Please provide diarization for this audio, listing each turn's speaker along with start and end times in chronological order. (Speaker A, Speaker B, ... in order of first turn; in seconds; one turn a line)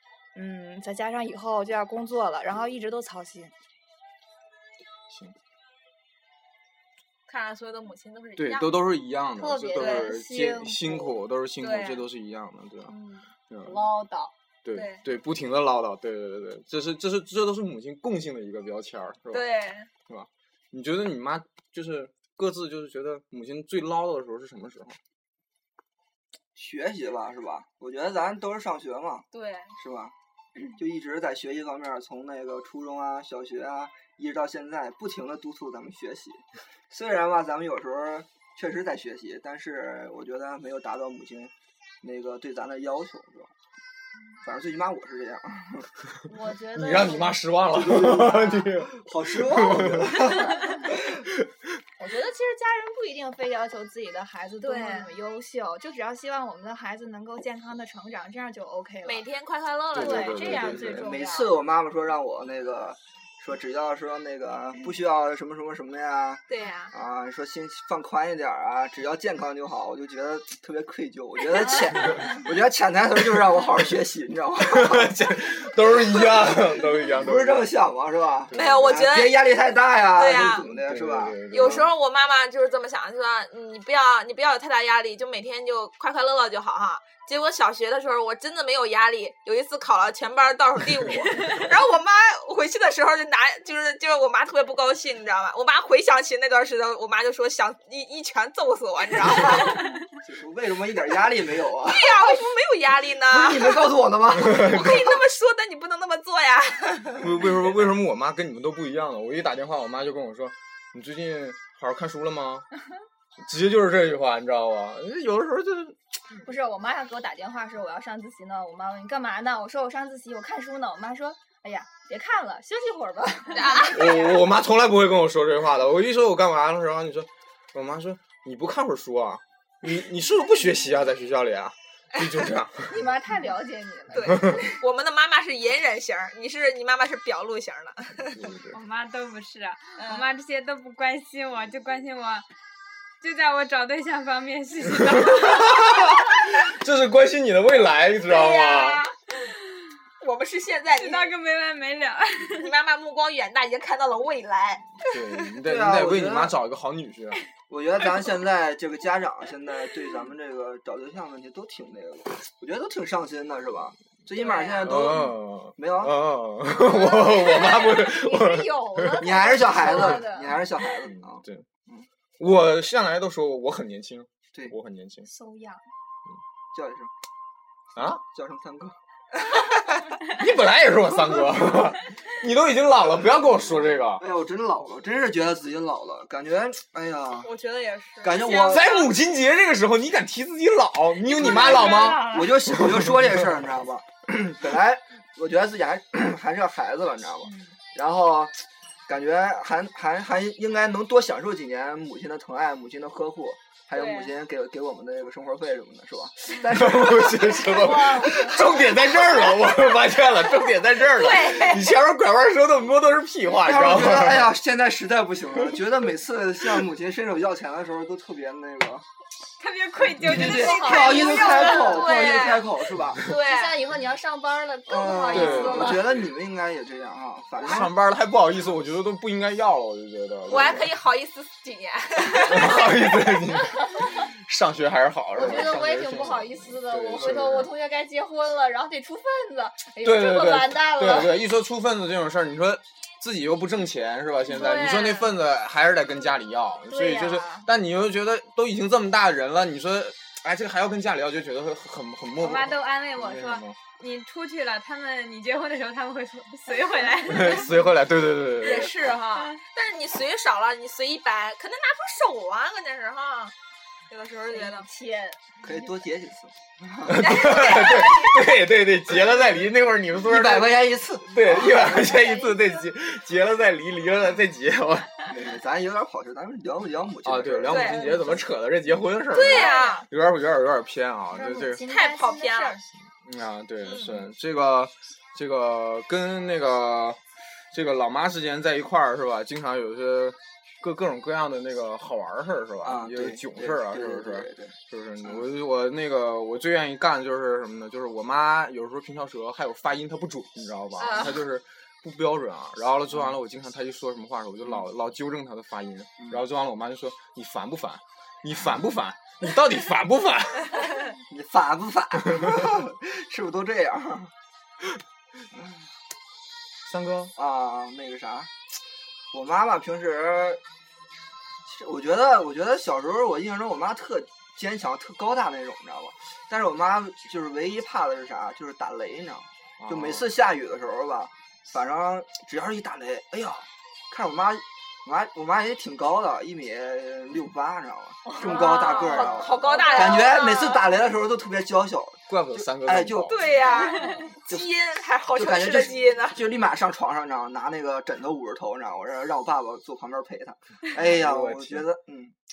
Speaker A: 0.3-3.5
Speaker B: 5.1-5.3
Speaker C: 7.3-8.8
Speaker B: 8.4-12.9
Speaker A: 9.4-11.2
Speaker C: 9.8-10.1
Speaker C: 11.6-12.1
Speaker C: 12.9-13.3
Speaker B: 13.5-13.9
Speaker A: 13.6-14.3
Speaker B: 14.6-19.5
Speaker C: 14.7-15.0
Speaker C: 19.3-19.9
Speaker B: 20.0-25.0
Speaker D: 26.5-29.2
Speaker C: 29.3-29.7
Speaker D: 29.8-43.5
Speaker D: 44.4-45.9
Speaker A: 46.3-47.4
Speaker B: 46.7-50.5
Speaker D: 47.7-51.0
Speaker A: 50.2-50.8
Speaker B: 51.2-51.5
Speaker A: 52.0-59.3
Speaker C: 54.6-55.1
Speaker C: 59.0-60.8
Speaker B: 59.9-61.1
Speaker A: 59.9-61.6
Speaker D: 60.4-75.3
Speaker C: 66.5-66.9
Speaker B: 74.7-77.7
Speaker D: 76.0-81.4
Speaker B: 78.5-79.0
Speaker C: 78.5-79.4
Speaker C: 80.1-80.7
Speaker B: 80.4-81.9
Speaker C: 81.5-99.9
Speaker D: 100.2-102.3
Speaker C: 101.8-103.9
Speaker D: 103.3-105.2
Speaker B: 104.3-105.0
Speaker C: 104.5-107.4
Speaker B: 107.1-112.7
Speaker B: 113.4-116.0
Speaker A: 116.4-124.3
Speaker C: 123.5-124.4
Speaker B: 123.9-133.0
Speaker A: 132.9-134.6
Speaker C: 134.1-138.5
Speaker B: 134.2-134.7
Speaker B: 138.3-138.8
Speaker E: 138.7-142.4
Speaker C: 140.0-140.3
Speaker E: 143.2-145.9
Speaker B: 144.9-149.0
Speaker C: 148.2-149.4
Speaker C: 150.2-151.3
Speaker E: 150.9-152.7
Speaker C: 152.5-155.5
Speaker B: 155.0-157.4
Speaker D: 155.6-156.6
Speaker D: 157.7-166.2
Speaker C: 164.3-165.2
Speaker B: 164.8-170.2
Speaker A: 166.8-170.8
Speaker D: 169.2-172.1
Speaker B: 171.0-171.7
Speaker B: 172.4-175.3
Speaker A: 175.2-175.8
Speaker D: 176.7-177.1
Speaker B: 177.9-178.2
Speaker D: 178.2-179.0
Speaker B: 180.2-184.2
Speaker D: 183.7-187.5
Speaker C: 187.4-189.1
Speaker D: 188.2-189.0
Speaker B: 188.7-193.4
Speaker C: 191.3-192.7
Speaker D: 191.4-208.5
Speaker C: 203.9-204.3
Speaker B: 206.5-214.5
Speaker A: 207.7-208.6
Speaker C: 211.1-211.9
Speaker D: 213.6-219.0
Speaker E: 219.6-222.0
Speaker D: 220.2-223.2
Speaker A: 220.3-222.4
Speaker C: 220.8-223.8
Speaker A: 223.2-226.1
Speaker D: 224.8-227.9
Speaker B: 225.3-226.2
Speaker B: 227.6-230.9
Speaker D: 230.5-230.8
Speaker C: 230.5-232.9
Speaker B: 232.4-237.7
Speaker A: 233.2-234.3
Speaker A: 235.3-241.3
Speaker D: 235.4-235.8
Speaker B: 240.0-253.8
Speaker C: 244.5-245.3
Speaker A: 246.9-247.7
Speaker E: 252.4-257.8
Speaker B: 257.2-258.9
Speaker C: 258.6-263.5
Speaker C: 264.1-264.9
Speaker A: 264.5-265.9
Speaker D: 265.6-267.4
Speaker B: 267.1-275.3
Speaker C: 267.2-268.4
Speaker D: 270.2-271.9
Speaker A: 271.5-272.9
Speaker D: 275.3-278.4
Speaker B: 277.2-281.8
Speaker C: 277.7-278.2
Speaker C: 279.3-280.0
Speaker A: 279.3-280.1
Speaker A: 281.3-282.9
Speaker C: 281.8-282.8
Speaker B: 283.2-287.2
Speaker C: 283.8-284.2
Speaker B: 287.7-310.8
Speaker D: 292.8-295.4
Speaker C: 301.0-301.4
Speaker D: 306.2-306.4
Speaker D: 311.2-314.3
Speaker D: 315.5-315.9
Speaker B: 316.8-317.3
Speaker D: 317.3-318.5
Speaker D: 319.3-320.6
Speaker D: 321.6-343.9
Speaker B: 329.8-330.3
Speaker A: 338.2-340.5
Speaker C: 338.4-341.0
Speaker B: 342.3-343.6
Speaker C: 343.3-346.4
Speaker A: 343.8-344.2
Speaker D: 345.2-352.4
Speaker B: 350.9-351.9